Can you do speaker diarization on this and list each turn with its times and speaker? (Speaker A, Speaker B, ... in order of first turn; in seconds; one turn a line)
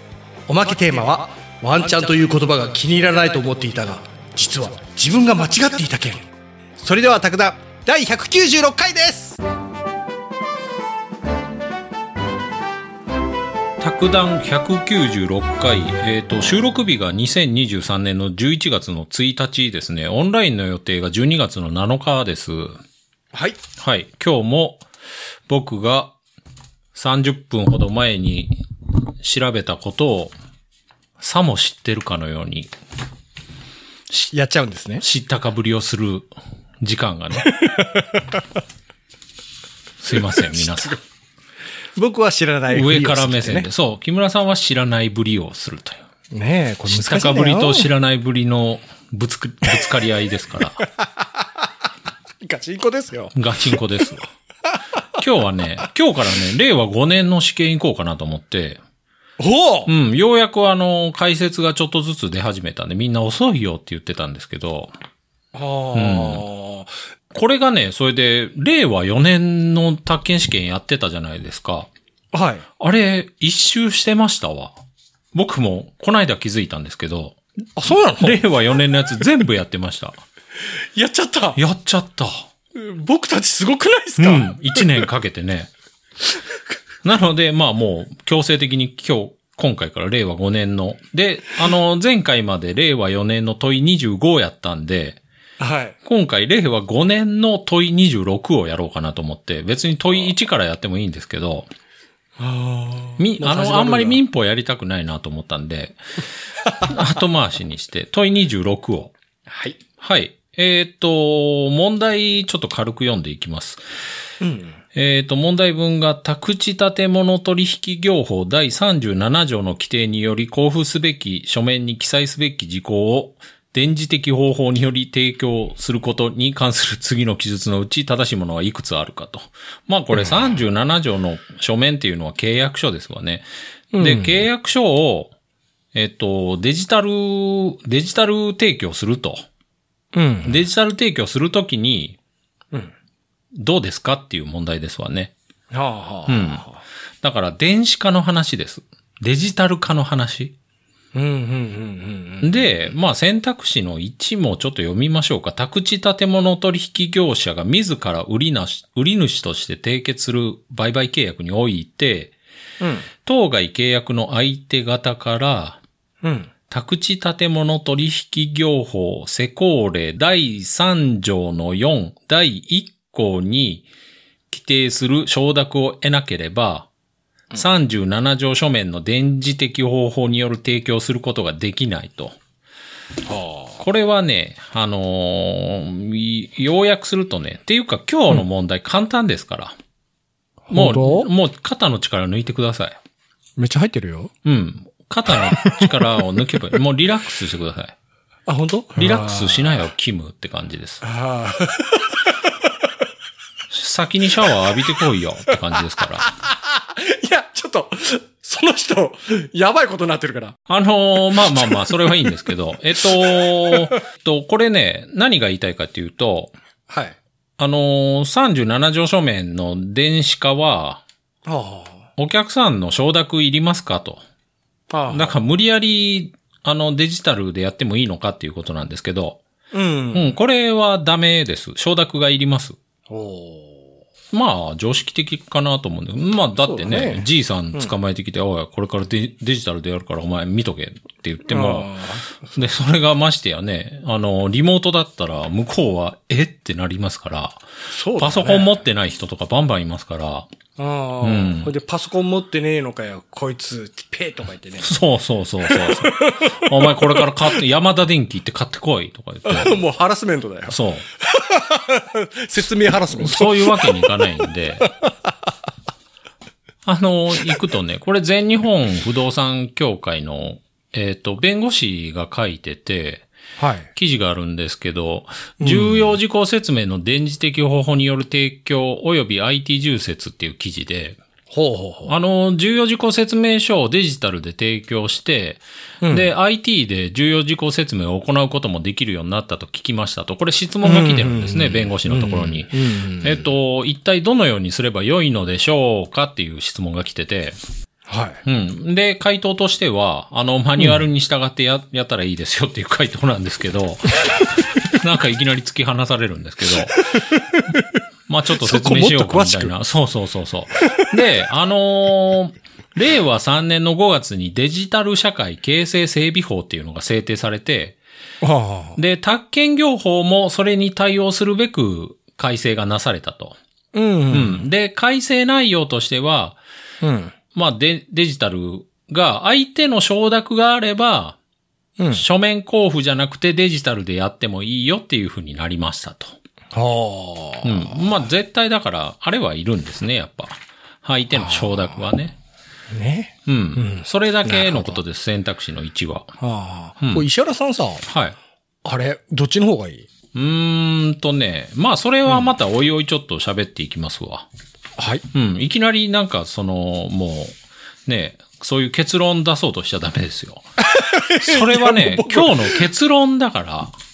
Speaker A: 0.5-9.4
Speaker B: 13.8-22.8
Speaker A: 23.3-23.6
Speaker B: 23.8-24.8
Speaker B: 25.5-26.1
Speaker B: 26.9-28.5
Speaker B: 29.2-30.3
Speaker B: 31.2-32.7
Speaker A: 34.3-35.0
Speaker B: 35.0-36.3
Speaker B: 36.8-37.5
Speaker A: 37.4-38.4
Speaker B: 40.0-41.0
Speaker A: 40.2-41.0
Speaker A: 41.9-43.7
Speaker B: 42.7-46.0
Speaker A: 46.3-47.9
Speaker B: 46.9-50.8
Speaker A: 50.8-51.7
Speaker A: 52.4-53.8
Speaker B: 53.3-54.2
Speaker B: 55.1-58.8
Speaker A: 59.4-59.9
Speaker B: 59.9-64.9
Speaker A: 65.5-66.9
Speaker B: 65.9-66.4
Speaker B: 67.3-71.9
Speaker A: 72.3-72.6
Speaker B: 72.8-74.7
Speaker B: 75.3-77.4
Speaker A: 77.8-78.4
Speaker B: 78.2-80.2
Speaker A: 80.9-81.6
Speaker B: 81.5-82.5
Speaker A: 82.7-85.1
Speaker B: 84.2-85.7
Speaker B: 87.0-95.2
Speaker A: 95.6-96.0
Speaker B: 96.0-101.7
Speaker A: 102.4-104.2
Speaker B: 103.2-106.0
Speaker B: 106.8-109.1
Speaker A: 109.5-109.8
Speaker B: 110.0-113.8
Speaker A: 114.4-114.8
Speaker B: 114.9-133.4
Speaker A: 133.9-134.5
Speaker B: 134.0-135.3
Speaker B: 135.9-139.4
Speaker A: 140.1-140.6
Speaker B: 140.4-142.2
Speaker B: 143.5-145.3
Speaker A: 145.7-146.8
Speaker B: 146.3-146.7
Speaker B: 147.2-150.5
Speaker A: 151.1-152.7
Speaker B: 152.4-162.3
Speaker A: 162.8-163.1
Speaker B: 163.2-165.8
Speaker A: 166.2-166.5
Speaker B: 166.7-173.8
Speaker B: 174.5-176.9
Speaker B: 177.5-182.4
Speaker A: 183.2-183.8
Speaker B: 183.8-189.8
Speaker A: 190.7-191.3
Speaker B: 190.7-193.0
Speaker A: 193.6-194.3
Speaker B: 194.4-197.9
Speaker A: 195.3-196.1
Speaker A: 198.5-199.8
Speaker B: 198.9-201.0
Speaker A: 201.0-202.9
Speaker B: 203.7-206.3
Speaker A: 204.5-210.6
Speaker B: 210.7-216.5
Speaker A: 211.3-214.0
Speaker A: 216.9-217.2
Speaker B: 217.6-221.0
Speaker A: 221.4-222.1
Speaker B: 222.2-224.2
Speaker A: 224.9-225.4
Speaker B: 225.1-229.4
Speaker A: 229.7-230.3
Speaker B: 230.1-232.8
Speaker A: 233.1-233.9
Speaker B: 234.3-241.9
Speaker A: 236.5-237.9
Speaker A: 241.5-242.6
Speaker B: 242.5-247.6
Speaker A: 247.9-248.8
Speaker B: 248.2-250.5
Speaker A: 250.8-254.9
Speaker B: 251.2-251.7
Speaker B: 254.8-259.8
Speaker A: 255.6-257.6
Speaker A: 259.4-264.1
Speaker B: 260.7-261.1
Speaker B: 263.1-264.9
Speaker A: 265.0-265.3
Speaker B: 266.8-273.3
Speaker A: 273.6-273.9
Speaker B: 273.9-281.2
Speaker A: 275.6-276.1
Speaker A: 281.5-282.1
Speaker B: 282.1-297.6
Speaker A: 286.0-286.3
Speaker A: 290.8-293.5
Speaker A: 298.1-298.4
Speaker B: 298.4-307.4
Speaker A: 300.8-301.0
Speaker A: 306.7-308.0
Speaker B: 308.3-318.0
Speaker A: 308.6-309.7
Speaker A: 318.4-319.0
Speaker B: 318.9-323.6
Speaker A: 323.9-324.7
Speaker B: 324.3-326.6
Speaker A: 327.0-327.3
Speaker B: 327.5-331.4
Speaker A: 332.0-332.2
Speaker B: 332.1-336.4
Speaker A: 336.7-338.2
Speaker B: 337.6-342.4
Speaker A: 341.3-342.0
Speaker A: 342.9-345.0
Speaker B: 343.4-346.3
Speaker A: 346.4-348.1
Speaker B: 347.0-347.3
Speaker B: 348.0-348.4
Speaker A: 348.8-350.1
Speaker B: 350.3-354.5
Speaker A: 355.0-355.2
Speaker B: 355.3-357.5
Speaker B: 358.1-360.6
Speaker A: 360.8-362.8
Speaker B: 361.3-363.9